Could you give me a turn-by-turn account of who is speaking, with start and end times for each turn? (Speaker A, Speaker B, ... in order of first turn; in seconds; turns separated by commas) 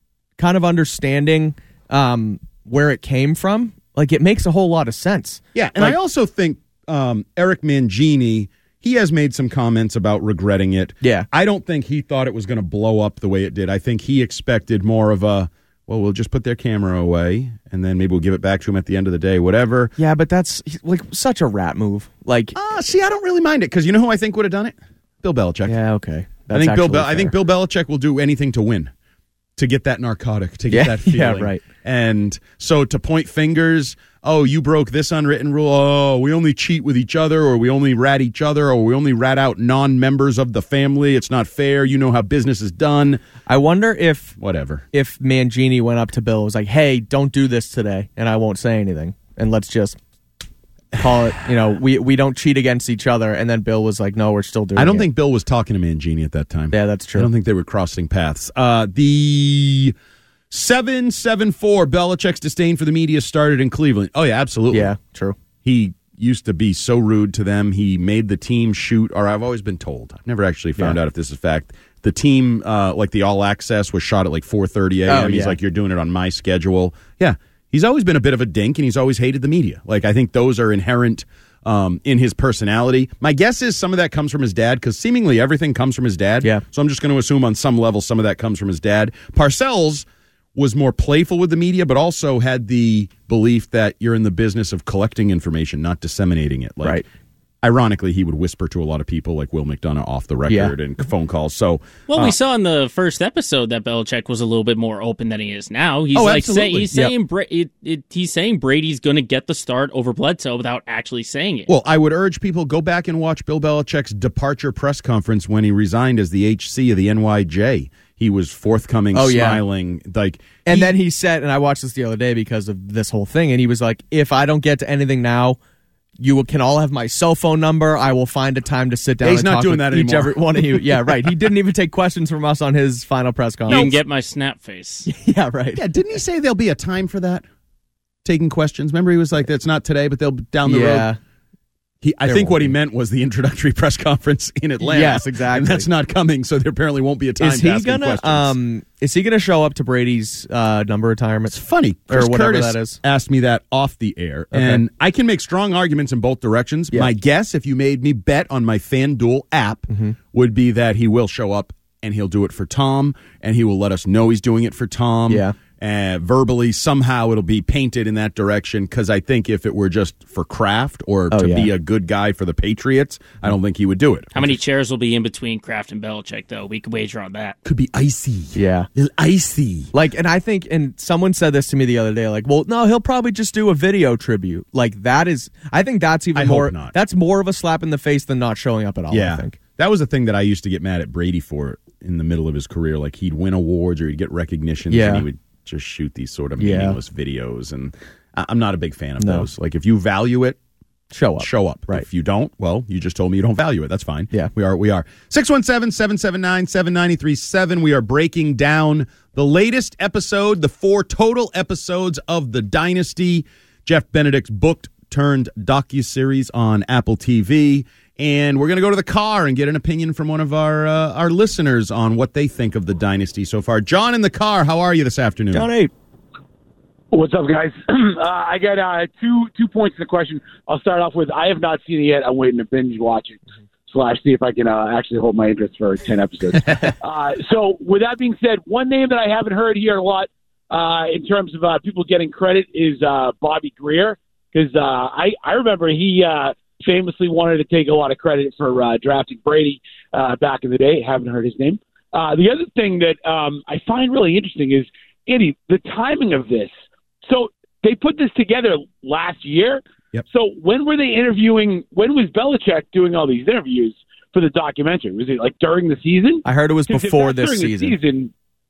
Speaker A: 0.4-6.0, Speaker B: 5.5-19.9, Speaker A: 11.0-11.3, Speaker A: 20.0-22.5, Speaker B: 22.5-25.8, Speaker A: 25.6-27.3, Speaker B: 26.5-28.9, Speaker B: 29.6-43.2, Speaker A: 30.7-31.6, Speaker A: 43.5-44.4, Speaker B: 44.4-44.9, Speaker A: 44.9-50.0, Speaker A: 51.0-55.1, Speaker B: 54.8-59.9, Speaker A: 56.7-57.3, Speaker B: 60.5-64.9, Speaker A: 64.7-65.3, Speaker B: 65.6-97.0, Speaker A: 75.1-75.6, Speaker B: 97.6-102.3, Speaker A: 100.5-100.7, Speaker C: 102.1-111.7, Speaker B: 106.1-106.9, Speaker B: 111.7-121.0, Speaker A: 119.1-119.6, Speaker A: 120.6-125.6, Speaker A: 126.2-133.9, Speaker B: 129.2-131.3, Speaker B: 133.7-134.0, Speaker C: 133.7-135.1, Speaker A: 135.1-135.8, Speaker B: 135.8-137.4, Speaker B: 138.2-141.1, Speaker A: 140.7-141.2, Speaker B: 142.0-148.5, Speaker A: 142.3-142.7, Speaker A: 144.8-145.9, Speaker A: 147.4-151.5, Speaker B: 151.5-174.6, Speaker A: 152.1-153.0, Speaker A: 154.5-154.8, Speaker A: 159.9-160.2, Speaker A: 165.3-165.6, Speaker A: 171.3-171.7, Speaker C: 174.3-177.6, Speaker B: 177.6-179.9, Speaker A: 178.5-178.9, Speaker A: 179.9-189.6, Speaker B: 186.3-186.9, Speaker B: 189.1-200.6, Speaker A: 194.9-195.2, Speaker A: 196.6-197.0, Speaker A: 199.2-199.5, Speaker A: 201.1-202.1, Speaker B: 201.4-225.7, Speaker A: 225.5-225.9, Speaker D: 227.1-256.7, Speaker D: 257.2-268.3, Speaker A: 266.4-267.9